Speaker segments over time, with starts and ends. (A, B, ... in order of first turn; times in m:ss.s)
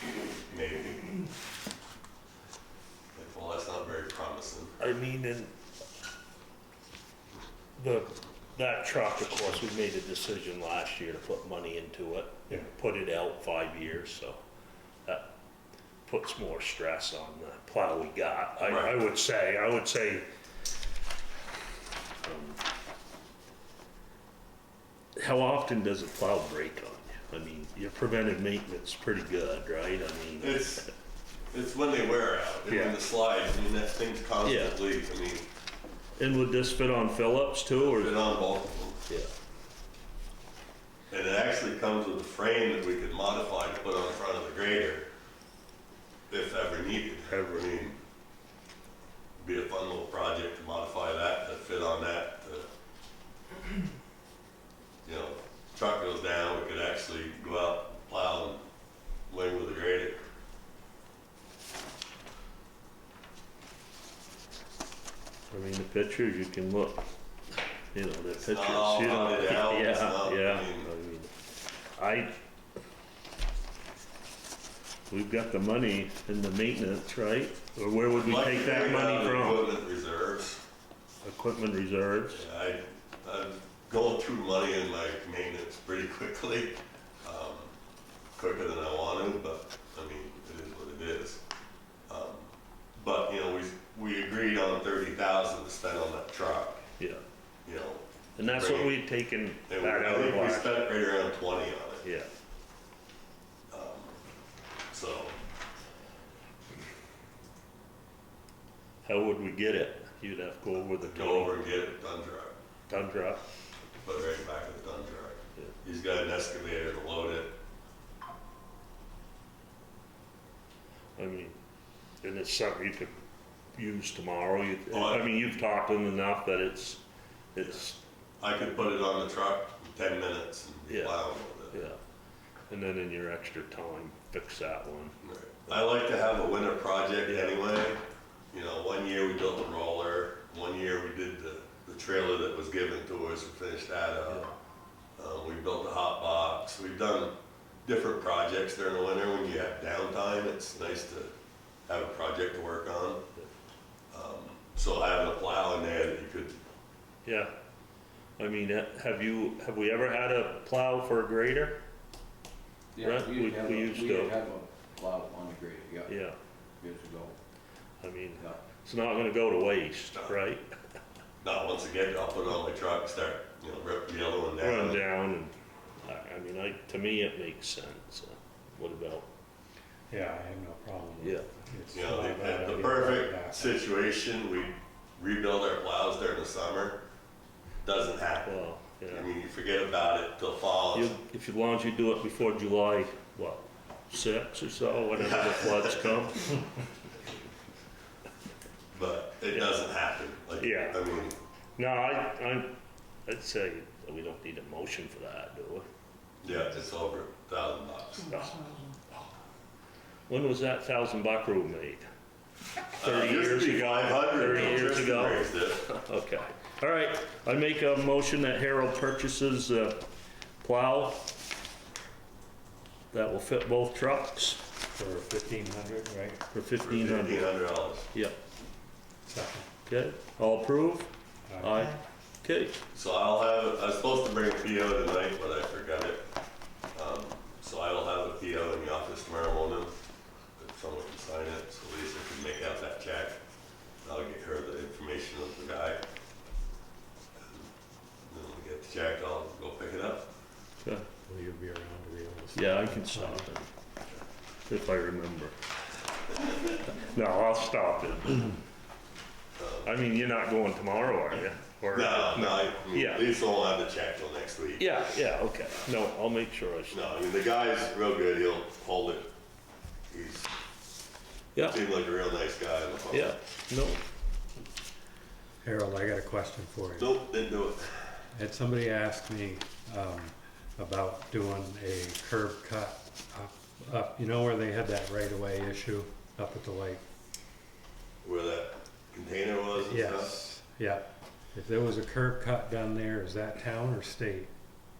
0:00.5-0:01.2 A
0:03.1-0:04.8 A
0:04.8-0:05.5 B
0:07.8-0:14.4 B
0:16.0-0:20.3 B
0:18.6-0:18.9 A
0:22.2-0:22.6 B
0:25.2-0:30.9 B
0:30.4-0:30.8 A
0:31.5-0:35.5 A
0:32.7-0:33.0 B
0:34.4-0:34.8 B
0:36.2-0:38.2 B
0:37.7-0:39.0 A
0:41.1-0:45.1 A
0:46.3-0:48.0 A
0:47.3-0:47.7 B
0:49.4-0:52.7 A
0:55.0-0:58.6 A
0:59.3-1:00.2 A
1:05.5-1:07.0 B
1:07.9-1:11.3 B
1:08.4-1:10.9 A
1:12.0-1:12.3 B
1:15.1-1:19.6 B
1:18.1-1:20.6 A
1:21.2-1:22.4 B
1:22.3-1:27.7 A
1:28.4-1:31.4 A
1:32.1-1:36.8 A
1:37.6-1:38.9 A
1:38.4-1:40.9 B
1:39.7-1:42.0 A
1:42.0-1:42.3 B
1:43.7-1:44.2 A
1:44.9-1:45.4 A
1:49.0-1:51.6 B
1:51.0-1:52.6 A
1:52.9-1:53.4 B
1:54.0-1:57.6 A
2:01.2-2:01.6 B
2:02.2-2:03.1 B
2:03.7-2:07.0 B
2:04.9-2:05.2 A
2:07.5-2:08.0 B
2:08.4-2:11.8 A
2:10.9-2:12.0 B
2:12.7-2:15.2 B
2:15.2-2:24.5 A
2:17.2-2:17.6 B
2:25.2-2:31.3 A
2:31.9-2:33.2 A
2:34.1-2:36.6 A
2:37.2-2:37.5 B
2:38.4-2:41.8 B
2:42.9-2:46.1 C
2:43.0-2:44.4 B
2:46.1-2:46.4 B
2:46.8-2:47.4 C
2:48.0-2:50.6 B
2:51.4-2:55.0 A
2:54.6-2:59.3 B
3:00.1-3:03.8 D
3:01.2-3:01.5 B
3:01.9-3:07.0 A
3:07.8-3:08.5 A
3:08.4-3:09.3 B
3:09.1-3:11.1 A
3:10.9-3:16.6 B
3:15.2-3:16.1 A
3:18.9-3:21.4 A
3:19.5-3:19.8 B
3:20.6-3:21.0 B
3:21.8-3:25.8 B
3:26.4-3:28.8 A
3:28.3-3:28.7 B
3:30.3-3:32.0 B
3:33.0-3:35.8 A
3:33.0-3:40.1 B
3:40.6-3:41.3 B
3:43.1-3:44.6 B
3:44.9-3:46.4 D
3:46.5-3:47.5 B
3:46.8-3:48.1 A
3:48.1-3:48.4 B
3:49.2-3:49.7 D
3:49.8-3:52.8 B
3:51.5-3:51.9 D
3:52.9-3:56.2 A
3:56.9-4:00.0 A
4:00.6-4:03.4 A
4:04.0-4:06.0 A
4:08.3-4:10.3 A
4:10.8-4:11.1 B
4:11.2-4:13.4 D
4:12.5-4:13.7 B
4:14.7-4:15.5 B
4:16.6-4:18.6 B
4:19.6-4:19.9 A
4:19.8-4:23.3 B
4:21.9-4:25.0 A
4:24.8-4:27.0 B
4:26.9-4:29.3 A
4:30.1-4:30.5 A
4:31.6-4:31.8 B
4:31.6-4:33.4 A
4:33.1-4:34.0 B
4:35.6-4:37.1 D
4:37.0-4:38.2 A
4:38.3-4:47.0 D
4:48.2-4:50.3 A
4:49.8-4:54.5 D